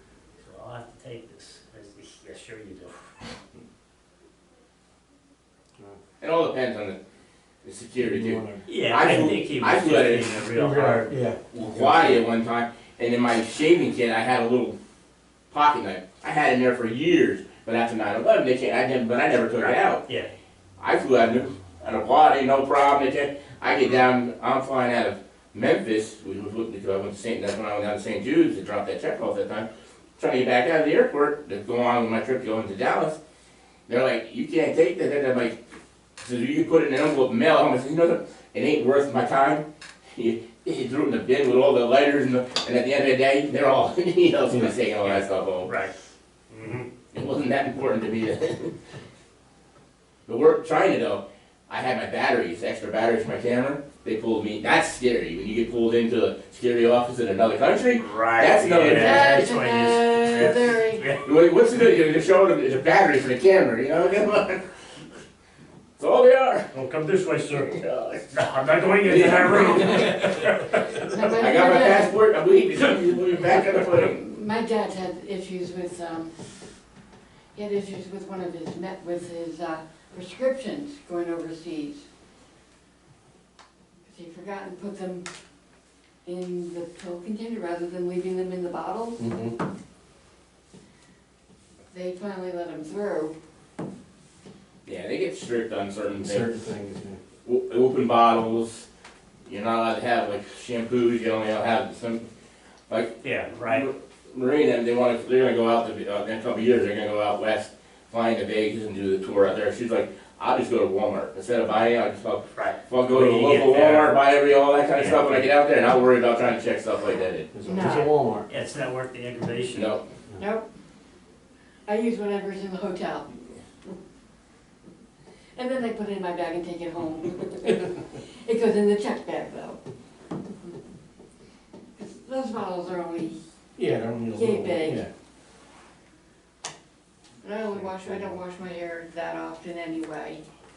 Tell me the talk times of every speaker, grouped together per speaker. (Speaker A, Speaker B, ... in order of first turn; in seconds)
Speaker A: 0.4-3.1, 8.7-11.2, 19.6-20.3, 45.0-45.9, 46.5-46.9, 58.0-61.3, 66.7-71.2, 103.2-103.9, 112.5-114.2, 114.9-115.5, 118.5-120.0
Speaker B: 6.2-7.0, 7.6-10.4, 11.5-14.8, 15.5-20.0, 20.8-33.2, 33.9-35.6, 36.2-45.7, 47.1-48.8, 50.3-59.5, 61.2-64.7, 66.0-66.7, 67.6-68.2, 69.0-70.3, 71.3-74.2, 94.8-96.5, 97.4-98.9, 99.5-102.2, 102.9-117.5, 119.7-120.0
Speaker C: 8.0-8.6, 10.5-12.0, 89.2-89.6, 96.2-97.2, 117.5-118.5, 133.8-135.1, 137.9-138.3
Speaker D: 58.8-61.0, 71.1-72.2, 74.0-76.3, 77.5-82.0, 84.1-85.3, 86.2-89.3, 91.9-93.3, 117.6-118.1, 120.4-120.7, 121.9-123.6, 125.5-129.8, 132.0-133.4, 134.3-135.1, 137.4-140.4